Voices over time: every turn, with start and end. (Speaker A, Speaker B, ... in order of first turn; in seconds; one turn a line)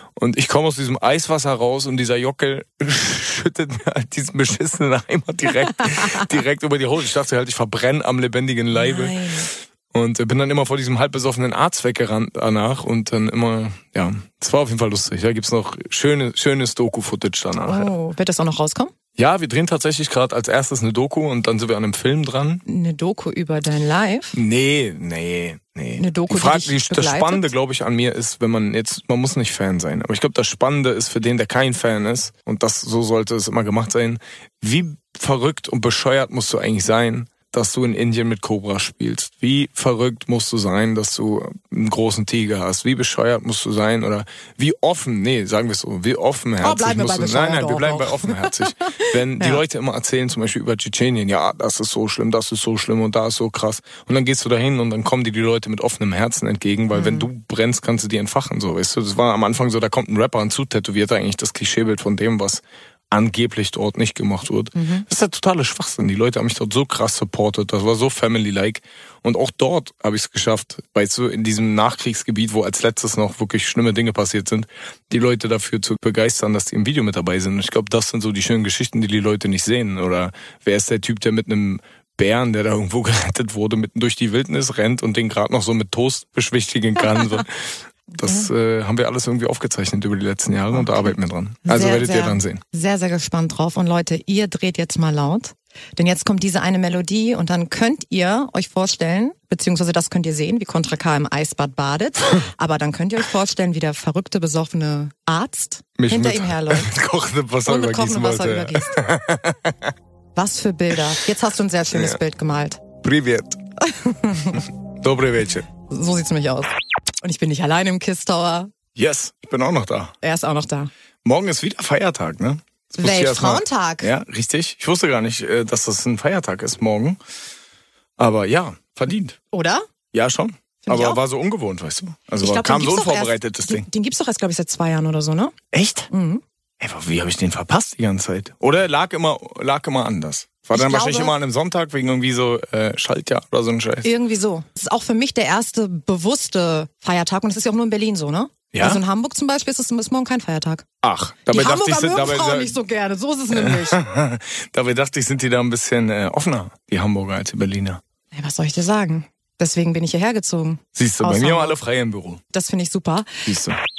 Speaker A: 0.1-17.9
Speaker B: 8.7-9.5
Speaker B: 17.6-18.9
Speaker A: 19.1-22.6
Speaker B: 22.6-24.4
Speaker A: 24.3-92.6
Speaker B: 26.0-27.5
Speaker B: 46.6-49.6
Speaker B: 56.9-57.3
Speaker B: 64.8-65.0
Speaker B: 88.2-88.5
Speaker B: 90.7-91.1
Speaker B: 91.6-106.9
Speaker A: 106.0-109.9
Speaker B: 107.6-109.0
Speaker B: 110.3-112.8
Speaker A: 111.9-112.2
Speaker A: 113.0-113.6
Speaker B: 113.8-114.7
Speaker A: 114.5-115.7
Speaker B: 115.9-116.7
Speaker B: 117.2-118.7
Speaker A: 118.9-120.1
Speaker B: 120.2-120.9
Speaker A: 121.2-127.2
Speaker B: 123.0-124.1
Speaker A: 128.2-129.4
Speaker B: 129.5-129.8
Speaker A: 130.1-133.9
Speaker B: 130.8-131.2
Speaker B: 132.4-135.5
Speaker A: 135.7-136.1
Speaker B: 136.1-136.4
Speaker A: 136.8-144.1
Speaker B: 140.7-141.3
Speaker B: 144.0-150.8
Speaker A: 148.7-149.0
Speaker A: 151.0-152.8
Speaker B: 151.5-154.0
Speaker A: 153.5-158.0
Speaker B: 158.3-161.8
Speaker A: 160.9-162.4
Speaker B: 162.5-163.4
Speaker A: 163.4-163.8